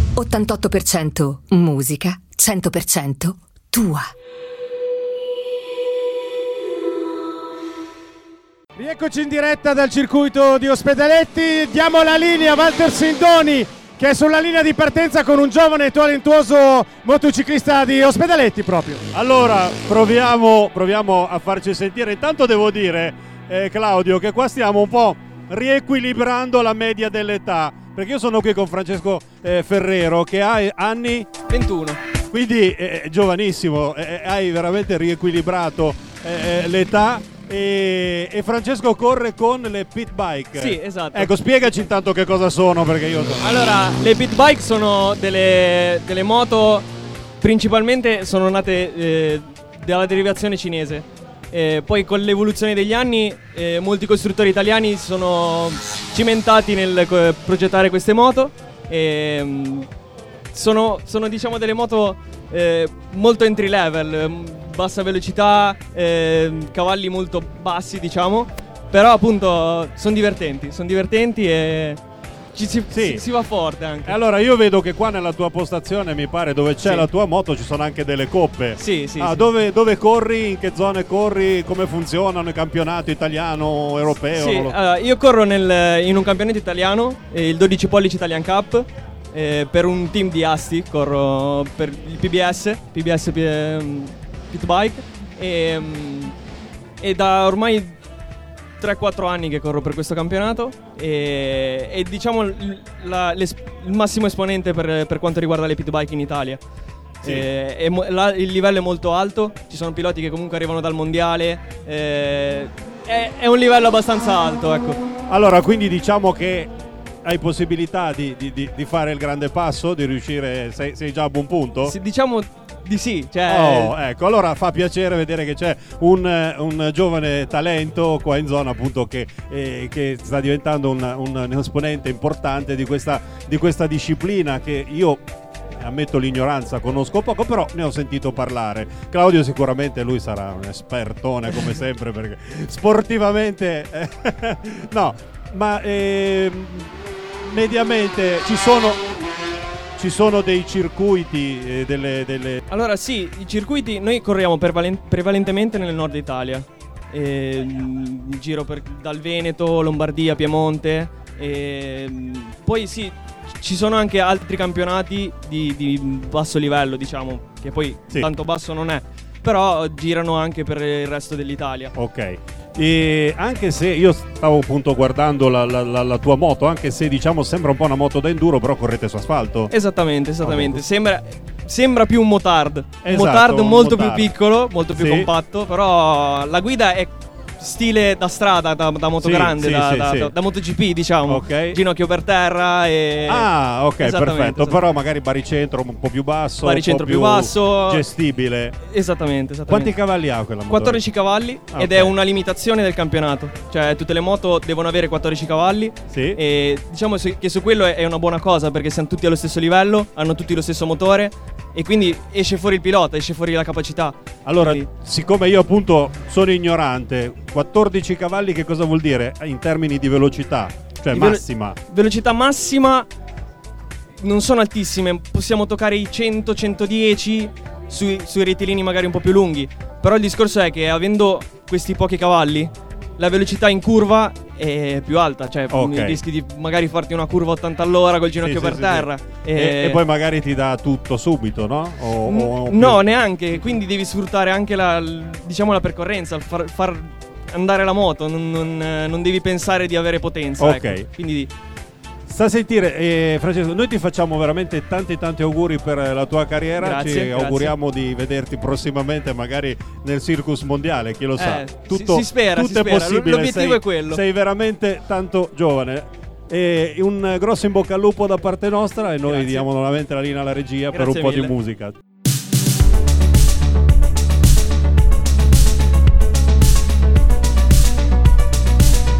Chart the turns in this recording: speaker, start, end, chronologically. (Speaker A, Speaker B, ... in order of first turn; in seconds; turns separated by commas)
Speaker A: 0.1-4.1, Speaker B: 8.8-19.0, Speaker C: 19.1-31.3, Speaker D: 31.5-32.0, Speaker C: 32.3-43.4, Speaker D: 40.5-41.3, Speaker D: 43.4-46.9, Speaker D: 47.4-59.9, Speaker D: 60.5-72.0, Speaker D: 72.5-74.2, Speaker C: 72.9-73.2, Speaker C: 74.0-84.8, Speaker D: 76.8-77.1, Speaker D: 78.8-79.5, Speaker D: 84.3-96.3, Speaker D: 97.0-97.9, Speaker D: 98.8-106.6, Speaker D: 107.2-115.0, Speaker C: 115.3-116.7, Speaker C: 117.2-121.9, Speaker D: 121.8-123.9, Speaker C: 123.5-135.2, Speaker C: 135.8-149.0, Speaker C: 150.0-152.6, Speaker D: 152.7-171.9, Speaker C: 171.9-179.7, Speaker D: 179.7-194.8, Speaker C: 180.4-180.8, Speaker C: 183.0-184.3, Speaker C: 184.9-185.3, Speaker C: 189.2-190.3, Speaker C: 191.2-191.8, Speaker C: 193.3-198.8, Speaker D: 196.6-198.0, Speaker D: 198.9-199.9, Speaker C: 199.7-201.0, Speaker D: 200.7-214.9, Speaker C: 201.7-202.2, Speaker C: 206.1-206.4, Speaker C: 214.4-221.8, Speaker D: 221.1-223.1, Speaker D: 224.2-240.0, Speaker C: 235.7-236.2, Speaker C: 238.4-243.0, Speaker D: 242.2-251.5, Speaker C: 250.6-251.1, Speaker C: 252.3-271.9, Speaker D: 256.8-257.7, Speaker D: 261.4-264.2, Speaker D: 269.2-269.6, Speaker D: 270.9-271.5